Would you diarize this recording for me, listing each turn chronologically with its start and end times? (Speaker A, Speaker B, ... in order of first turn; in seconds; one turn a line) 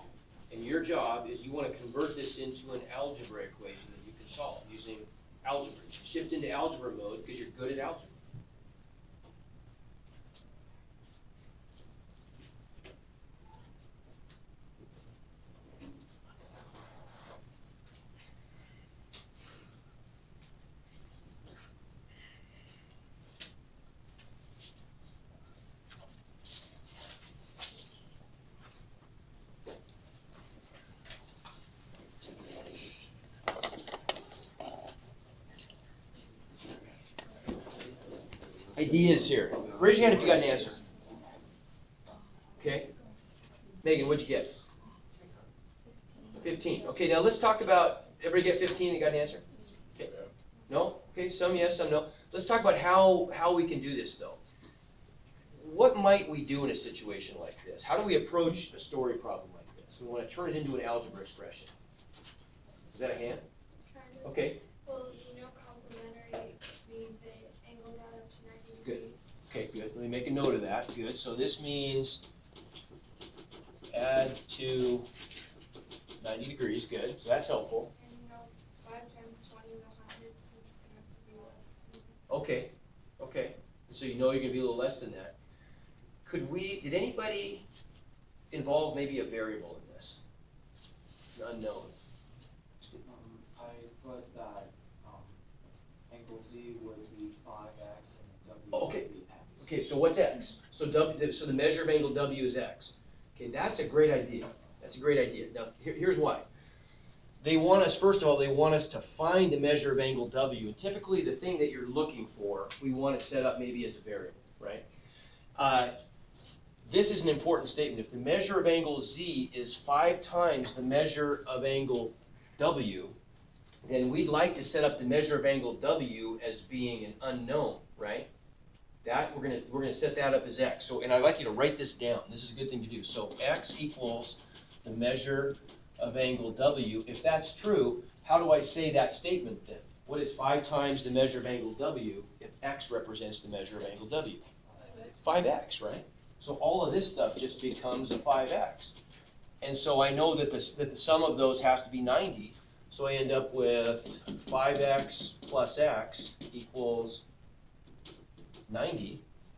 Speaker A: 0.5-8.2
Speaker A: 38.8-40.8
Speaker A: 42.6-42.9
Speaker A: 43.8-44.5
Speaker B: 46.1-46.4
Speaker A: 46.4-49.4
Speaker A: 50.0-54.4
Speaker A: 55.6-61.7
Speaker A: 62.9-63.4
Speaker B: 63.9-69.2
Speaker A: 64.2-64.6
Speaker A: 68.8-72.2
Speaker A: 73.9-75.1
Speaker A: 76.2-77.9
Speaker B: 78.0-82.2
Speaker A: 82.3-85.4
Speaker A: 86.2-87.7
Speaker A: 88.5-90.2
Speaker A: 91.3-91.9
Speaker C: 93.0-95.4
Speaker C: 96.1-99.8
Speaker A: 98.7-99.1
Speaker A: 99.6-106.5
Speaker A: 107.4-114.9
Speaker A: 115.6-116.0
Speaker A: 116.8-123.2
Speaker A: 123.8-128.3
Speaker A: 129.0-144.4
Speaker C: 144.7-145.2
Speaker A: 145.2-149.0
Speaker A: 149.6-157.2
Speaker A: 158.7-159.2